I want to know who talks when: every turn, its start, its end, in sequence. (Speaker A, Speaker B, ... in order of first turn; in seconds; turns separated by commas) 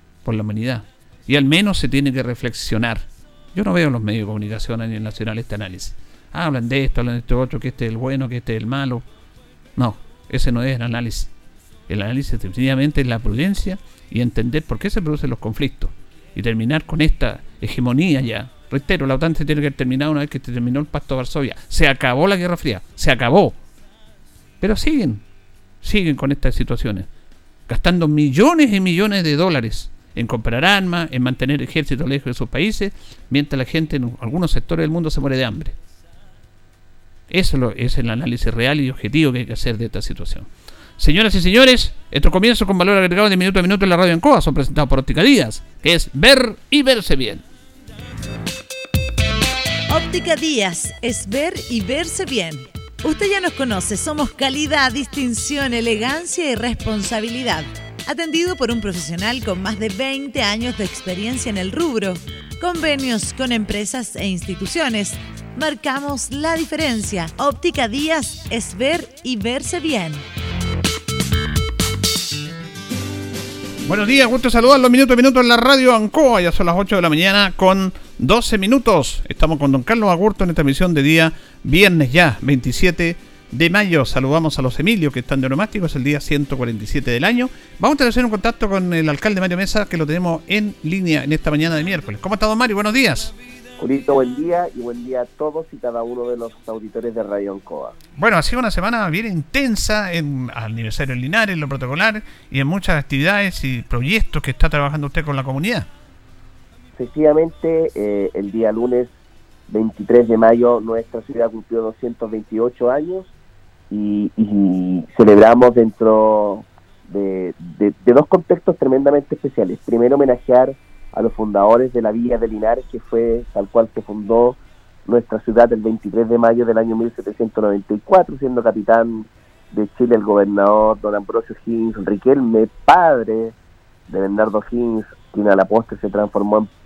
Speaker A: 0.2-9.1, Speaker A: 9.8-11.3, Speaker A: 11.9-23.6, Speaker A: 24.6-25.2, Speaker A: 25.8-27.1, Speaker A: 27.7-35.8, Speaker A: 37.3-47.4, Speaker B: 49.9-70.2, Speaker A: 73.9-93.3, Speaker C: 93.8-98.0, Speaker A: 98.2-105.9, Speaker C: 107.0-109.1, Speaker C: 109.7-113.3, Speaker C: 113.9-133.6, Speaker C: 134.1-136.7